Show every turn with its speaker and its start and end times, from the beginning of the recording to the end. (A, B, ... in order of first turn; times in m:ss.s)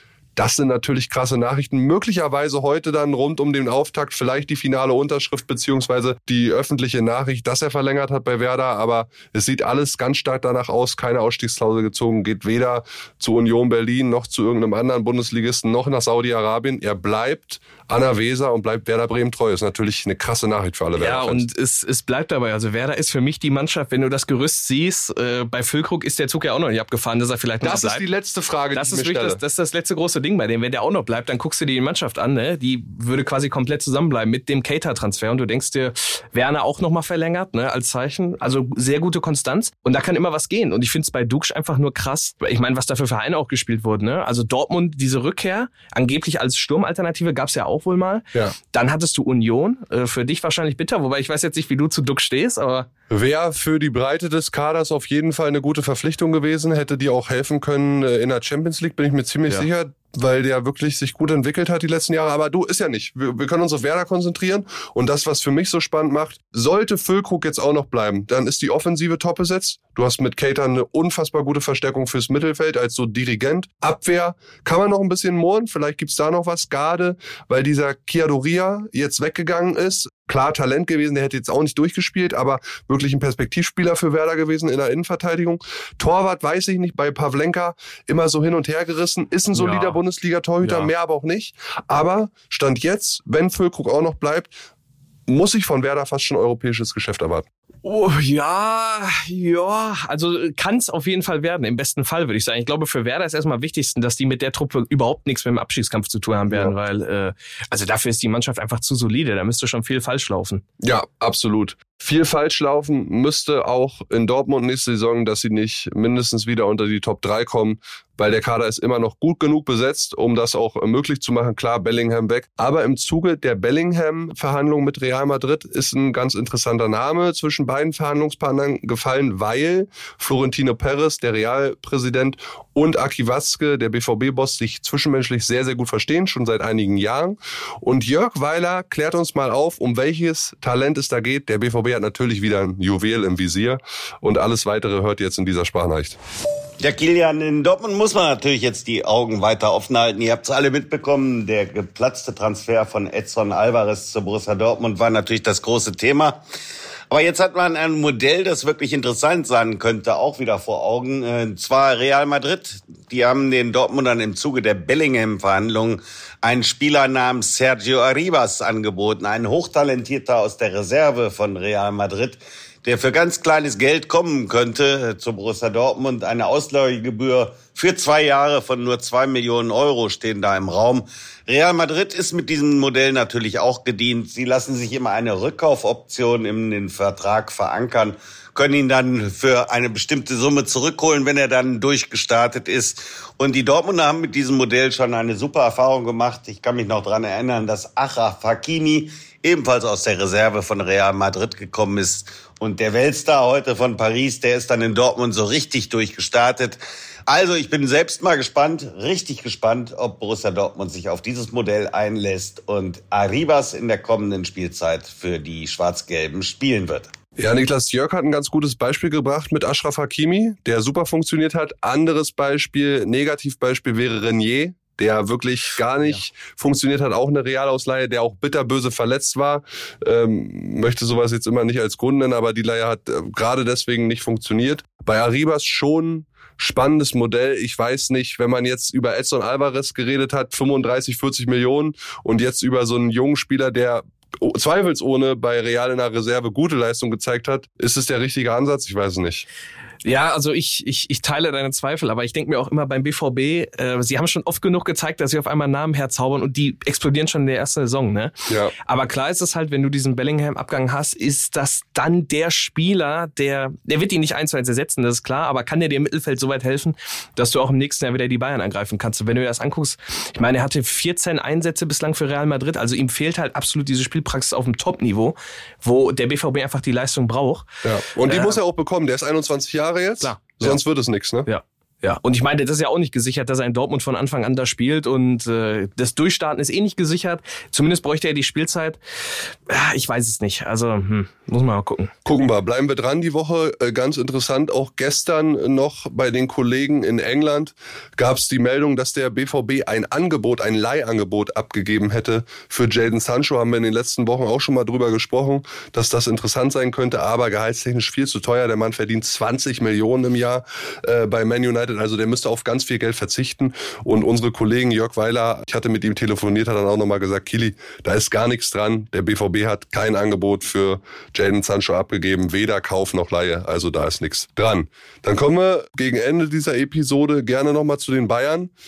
0:00.4-0:21.4 A
0:21.0-0:28.0 B
0:27.6-0:29.4 A
0:28.7-0:52.9 B
0:53.1-1:34.6 A
1:29.5-1:30.0 B
1:30.6-1:30.9 B
1:35.3-1:37.4 A
1:37.8-1:50.6 B
1:46.5-1:46.7 A
1:50.8-2:26.2 A
2:26.8-2:36.4 C
2:37.1-3:37.1 C
3:37.4-4:09.5 A
4:10.0-4:18.3 B
4:18.5-4:18.7 A
4:18.8-4:37.6 B
4:37.8-4:41.5 A
4:38.2-4:38.6 B
4:40.2-4:40.8 B
4:41.5-4:49.0 B
4:49.7-4:52.1 B
4:52.2-5:28.7 A